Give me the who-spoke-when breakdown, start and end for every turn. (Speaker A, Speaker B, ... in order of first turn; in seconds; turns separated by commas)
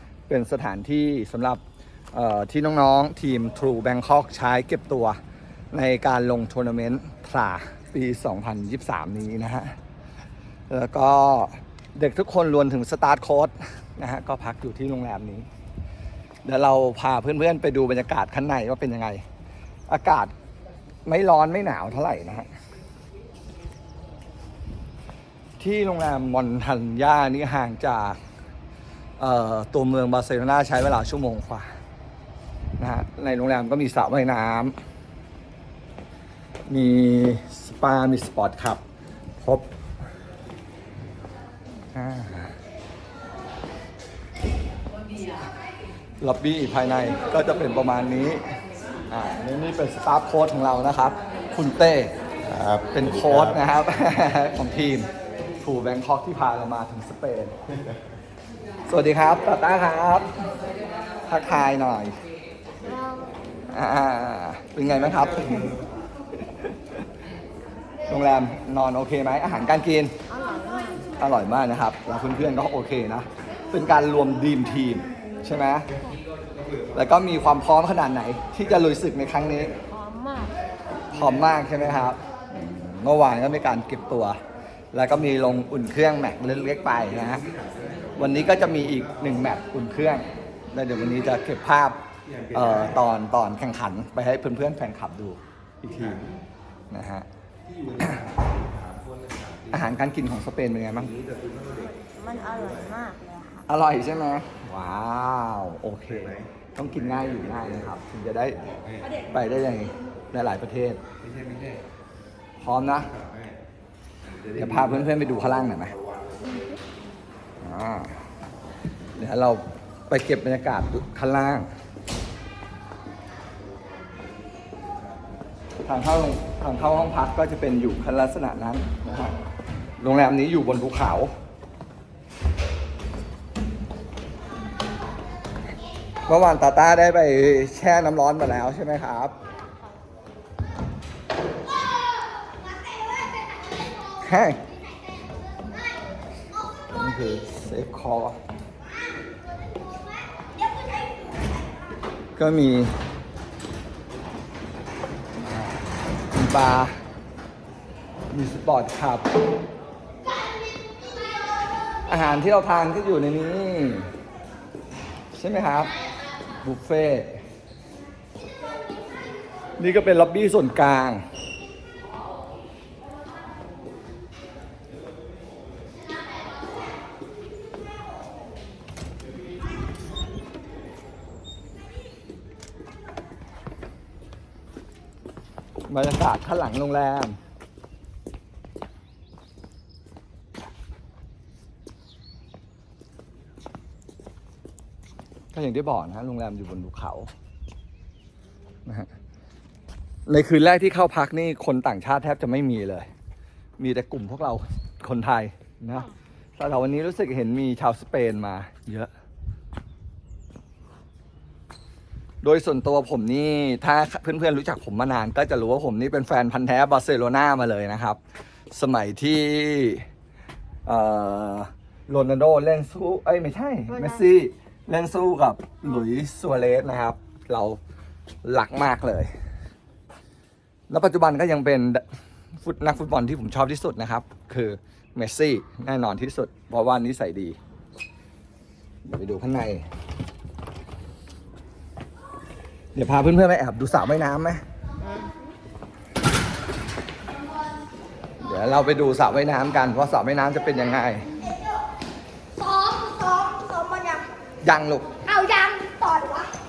Speaker A: 0.3-1.6, Speaker A: 2.1-5.2, Speaker A: 5.7-9.8, Speaker A: 10.7-15.5, Speaker A: 16.4-19.2, Speaker A: 19.9-20.3, Speaker A: 21.1-22.5, Speaker A: 25.6-28.2, Speaker A: 29.2-31.7, Speaker A: 32.8-34.8, Speaker A: 36.7-38.8, Speaker A: 39.4-39.6, Speaker A: 41.9-42.5, Speaker A: 46.2-48.4, Speaker A: 49.1-52.1, Speaker A: 52.8-55.1, Speaker A: 55.6-57.5, Speaker A: 58.9-60.3, Speaker A: 61.2-62.2, Speaker B: 62.8-63.3, Speaker A: 63.7-65.7, Speaker A: 66.4-66.7, Speaker A: 68.1-70.1, Speaker B: 70.3-71.0, Speaker A: 71.2-75.9, Speaker A: 76.9-79.8, Speaker B: 79.9-80.6, Speaker A: 81.1-84.4, Speaker A: 84.9-87.5, Speaker A: 88.1-92.0, Speaker A: 92.5-96.2, Speaker A: 96.9-97.3, Speaker A: 98.0-98.3, Speaker A: 99.7-101.1, Speaker B: 101.6-103.7, Speaker A: 103.7-108.7, Speaker A: 109.3-111.0, Speaker A: 112.6-113.1, Speaker A: 114.5-116.0, Speaker B: 116.4-116.8, Speaker A: 117.6-118.2, Speaker A: 119.2-121.7, Speaker A: 125.8-129.4, Speaker A: 130.0-131.3, Speaker A: 136.2-139.3, Speaker C: 141.9-143.9, Speaker A: 144.2-144.6, Speaker C: 145.2-145.8, Speaker A: 146.9-148.4, Speaker C: 149.7-151.8, Speaker A: 152.3-152.9, Speaker A: 156.3-157.0, Speaker A: 158.3-159.3, Speaker C: 160.8-161.3, Speaker A: 162.1-164.1, Speaker A: 165.3-166.0, Speaker A: 166.6-167.4, Speaker A: 169.8-171.2, Speaker A: 185.9-187.4, Speaker A: 195.5-197.3, Speaker A: 200.2-203.1, Speaker A: 203.8-209.1, Speaker A: 212.4-218.2, Speaker A: 218.7-220.1, Speaker A: 220.8-227.8, Speaker A: 228.4-229.3, Speaker A: 230.9-232.0, Speaker A: 232.6-237.6, Speaker A: 239.0-239.8, Speaker A: 242.9-244.6, Speaker B: 245.0-245.3, Speaker A: 248.4-251.3, Speaker C: 252.5-254.3, Speaker A: 254.6-255.2, Speaker C: 255.2-256.5